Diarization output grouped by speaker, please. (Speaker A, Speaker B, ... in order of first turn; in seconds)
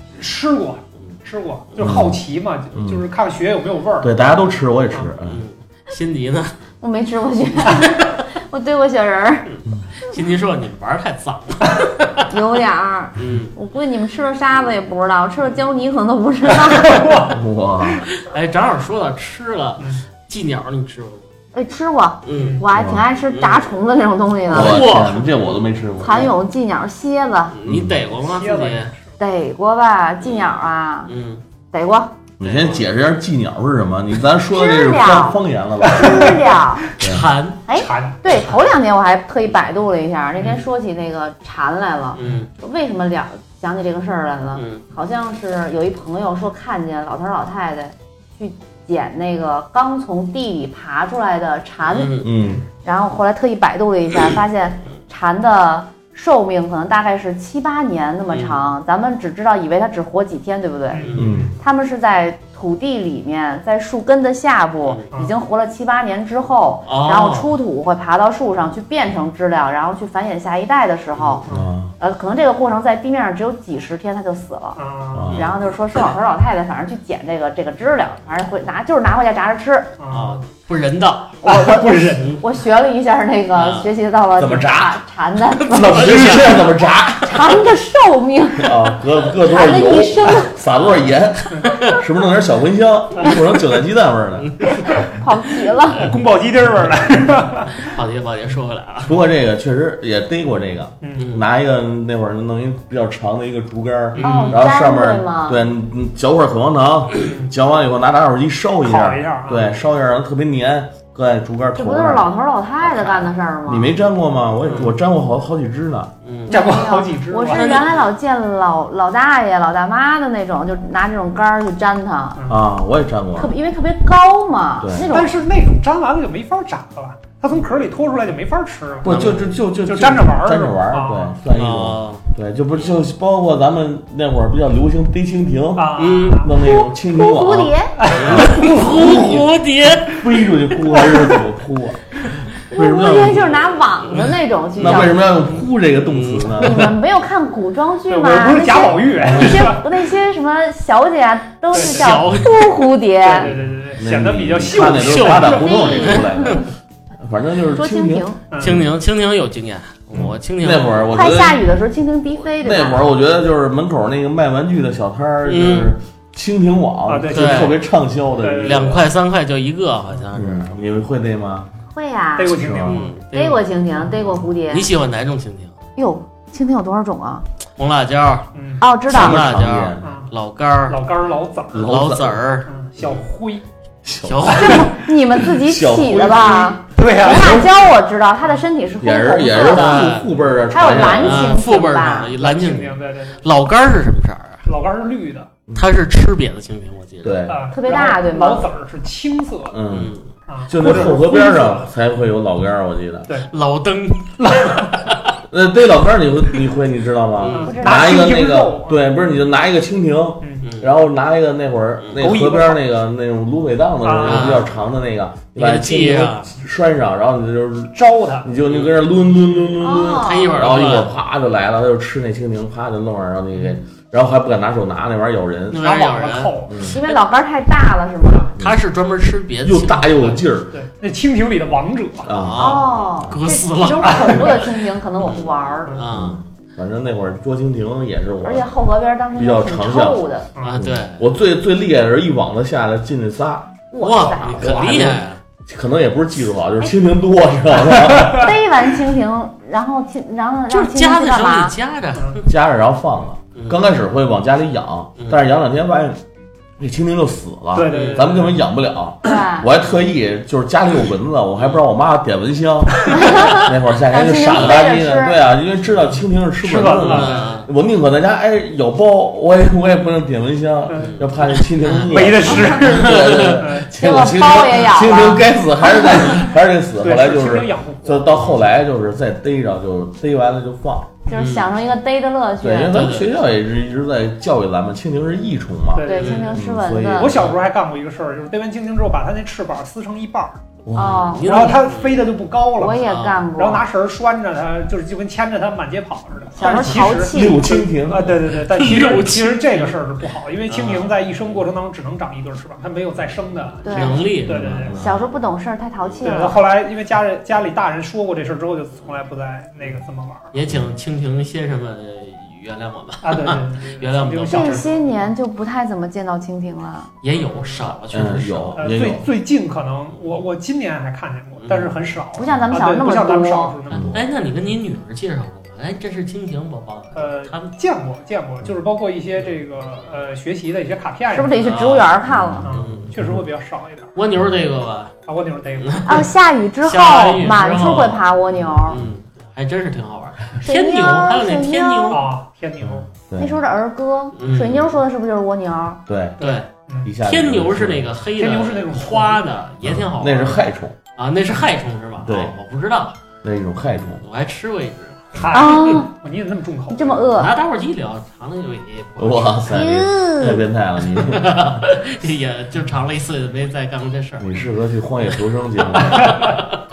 Speaker A: 0.2-4.1, 16.7-17.3, 22.3-22.6, 28.2-29.0, 35.8-36.4, 37.7-38.2, 60.9-61.5, 74.8-75.4, 80.0-80.4, 81.4-82.4, 95.9-97.8, 101.0-101.3, 108.8-109.7, 116.5-117.8, 125.1-131.3, 135.7-136.5, 138.0-139.4, 140.9-141.3, 148.1-149.9, 151.7-152.2, 153.2-155.9, 158.5-158.8, 167.1-167.8, 168.4-169.0, 172.4-173.1, 178.5-178.8, 180.0-180.3, 180.9-181.9, 182.7-183.6, 184.5-185.1, 186.9-187.7, 192.3-193.4, 194.7-195.5, 197.5-199.8, 200.5-201.9, 204.4-204.9, 207.6-209.0, 212.2-212.8, 214.0-214.6, 217.9-218.5, 225.8-226.8, 230.7-232.3, 234.0-234.5, 244.6-245.2, 248.1-248.4, 257.7-258.6, 266.6-267.5, 270.9-271.1, 272.1-273.9, 277.0-278.6, 285.9-286.6, 287.1-290.6, 291.4-293.0, 293.6-305.0, 306.2-310.5, 313.2-315.1, 317.4-317.9, 318.8-324.2, 327.1-331.5, 332.6-334.1, 335.3-336.2, 342.1-343.1, 346.4-347.1, 348.4-349.4, 355.3-357.2, 366.0-366.5
Speaker B: 1.8-2.2, 2.7-3.0, 4.0-5.4, 17.3-18.1, 22.7-23.0, 24.5-26.3, 27.6-28.0, 32.4-36.4, 37.0-37.2, 52.2-52.6, 61.1-61.5, 71.5-71.9, 75.1-75.5, 84.3-85.0, 85.7-87.6, 88.6-94.5, 99.0-112.3, 113.7-116.1, 122.5-123.5, 124.8-125.1, 129.0-139.5, 140.1-143.5, 144.8-146.9, 154.0-156.6, 157.2-158.8, 160.1-161.6, 162.6-169.0, 170.3-171.7, 172.5-173.1, 179.1-180.1, 181.7-182.4, 184.0-184.7, 185.4-187.7, 189.0-191.5, 195.7-195.9, 197.2-197.6, 199.7-200.1, 200.7-203.3, 205.5-225.8, 226.7-226.9, 229.6-230.7, 232.2-233.4, 236.1-238.7, 239.3-243.7, 244.4-248.6, 252.4-256.2, 256.8-281.1, 282.6-287.4, 290.8-291.3, 297.0-298.4, 304.5-305.1, 318.1-319.3, 323.9-324.2, 332.3-333.4, 343.3-343.5, 346.1-346.4, 347.0-348.1, 349.8-350.9, 352.2-352.5, 353.4-354.2, 359.2-361.9, 364.4-366.3
Speaker C: 5.2-6.5, 7.6-8.2, 9.5-12.3, 13.2-13.5, 18.2-21.3, 22.2-22.6, 23.3-23.7, 24.5-25.5, 27.5-28.9, 30.2-30.5, 31.1-31.4, 32.4-32.8, 37.0-37.6, 42.1-42.5, 44.5-44.8, 51.9-52.3, 58.3-58.7, 61.0-61.5, 66.9-67.5, 71.2-71.4, 80.1-82.4, 83.5-83.9, 85.7-86.6, 90.8-91.0, 91.6-92.0, 94.4-94.9, 97.8-99.2, 101.2-101.5, 104.1-104.6, 114.6-114.9, 116.2-116.6, 117.5-118.0, 129.0-129.5, 131.5-132.2, 135.9-136.5, 138.1-140.2, 143.1-144.3, 144.9-146.9, 149.2-149.7, 151.7-152.5, 154.7-156.6, 158.6-161.1, 165.4-165.9, 167.3-167.7, 168.6-170.8, 172.8-173.6, 174.7-175.7, 177.8-178.5, 179.1-181.0, 181.7-183.2, 184.2-184.9, 189.6-190.3, 190.9-194.7, 195.7-197.5, 199.9-200.3, 203.5-205.3, 207.4-207.7, 210.6-210.9, 214.2-214.7, 215.6-216.5, 218.6-219.1, 220.0-221.1, 225.7-227.2, 228.6-230.4, 232.3-236.4, 240.6-241.2, 244.0-245.4, 250.7-252.5, 253.5-253.8, 257.9-258.3, 267.0-267.7, 270.9-273.7, 278.3-278.6, 281.3-281.7, 282.9-283.3, 286.1-286.5, 287.3-287.6, 291.2-292.3, 293.0-293.4, 298.5-300.0, 300.7-301.2, 303.9-305.2, 310.5-314.9, 317.2-319.1, 321.6-321.9, 323.9-327.8, 331.6-332.1, 332.7-333.1, 334.1-335.1, 335.8-336.2, 336.8-338.2, 338.9-342.2, 344.4-345.0, 346.4-346.7, 347.2-350.6, 351.1-353.1, 354.2-355.4, 357.3-359.8, 361.1-364.6, 366.1-366.7
Speaker D: 6.8-9.5, 12.3-17.3, 21.5-24.8, 26.0-27.5, 29.2-31.1, 31.7-32.1, 34.5-35.4, 35.9-36.8, 37.7-52.2, 52.8-61.0, 61.6-71.4, 72.0-74.8, 75.3-79.9, 81.4-86.5, 87.2-88.8, 89.3-90.6, 95.0-96.1, 104.2-105.6, 111.8-113.9, 116.5-122.4, 123.3-125.3, 136.6-137.9, 142.7-145.2, 146.6-153.5, 155.6-156.6, 157.7-158.4, 161.1-163.0, 171.9-172.6, 173.3-174.8, 175.9-177.4, 178.8-179.4, 184.5-190.2, 190.7-192.3, 197.7-198.7, 207.6-208.4, 219.8-220.6, 226.9-228.5, 232.6-235.9, 238.4-240.5, 243.9-245.0, 248.4-251.7, 259.2-259.7, 263.1-265.4, 273.9-275.5, 281.3-283.2, 286.0-287.3, 290.9-291.8, 292.8-293.8, 296.6-297.8, 303.8-304.3, 305.0-306.6, 314.4-317.1, 322.4-323.8, 331.3-332.7, 336.1-339.0, 340.6-342.2, 343.4-346.0, 355.5-356.1, 356.9-357.5, 359.7-360.6